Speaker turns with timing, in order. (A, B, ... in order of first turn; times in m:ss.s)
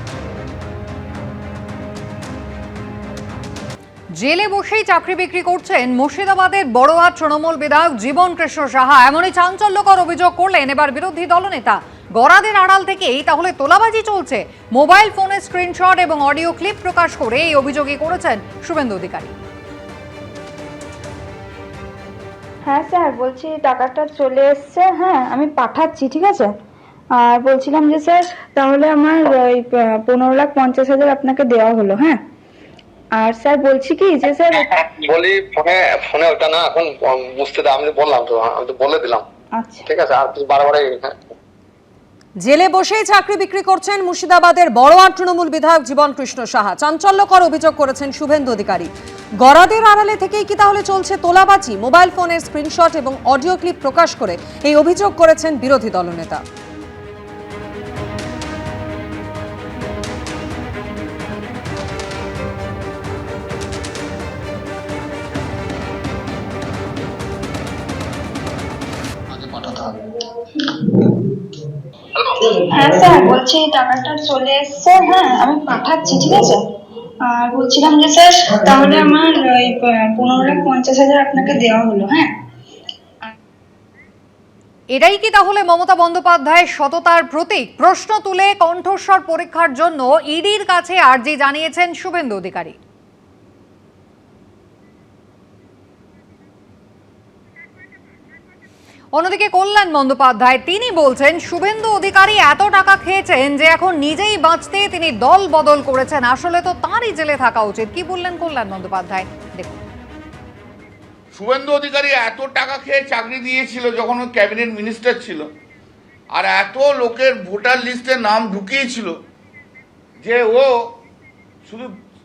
0:04.2-0:19.4 A
0:22.7-0:26.5 B
0:27.2-0:32.2 B
0:33.2-0:34.6 B
0:34.6-0:39.3 C
0:39.9-0:41.2 C
0:42.4-0:48.9 D
0:49.4-0:56.4 D
1:12.7-1:16.6 B
1:17.3-1:22.3 B
1:24.9-1:32.8 A
1:39.2-1:49.8 A
1:51.3-1:55.5 E
1:56.3-1:59.2 E
2:00.2-2:00.8 E
2:01.7-2:01.9 E